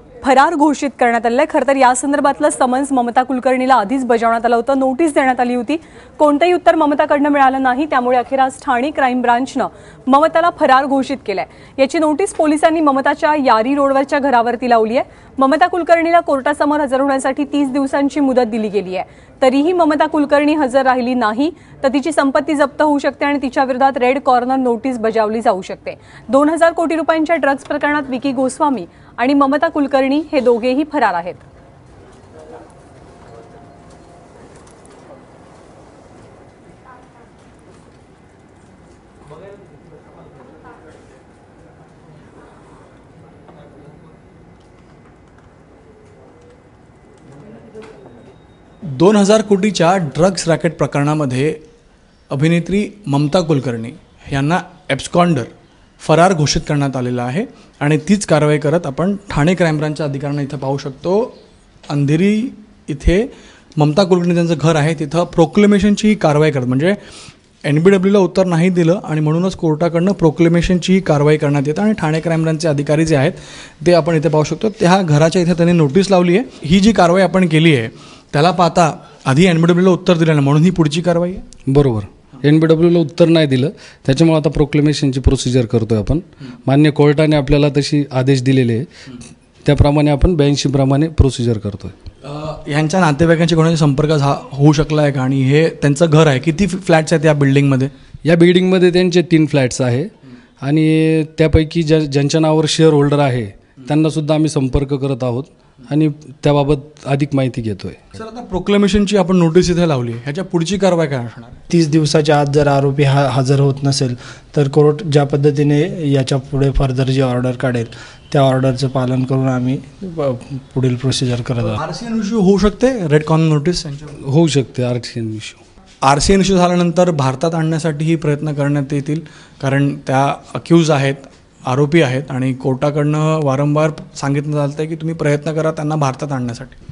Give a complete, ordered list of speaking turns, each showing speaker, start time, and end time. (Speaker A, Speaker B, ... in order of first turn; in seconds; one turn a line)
Speaker A: 0.2-31.4
Speaker B: 48.8-51.6
Speaker B: 52.3-61.4
Speaker B: 61.9-67.0
Speaker B: 67.6-81.5
Speaker C: 81.7-88.9
Speaker C: 89.6-91.9
Speaker B: 92.2-97.9
Speaker C: 98.2-100.1
Speaker C: 100.6-108.0
Speaker B: 108.2-111.6
Speaker D: 111.7-121.8
Speaker B: 121.6-124.2
Speaker C: 124.2-125.6
Speaker B: 126.0-136.8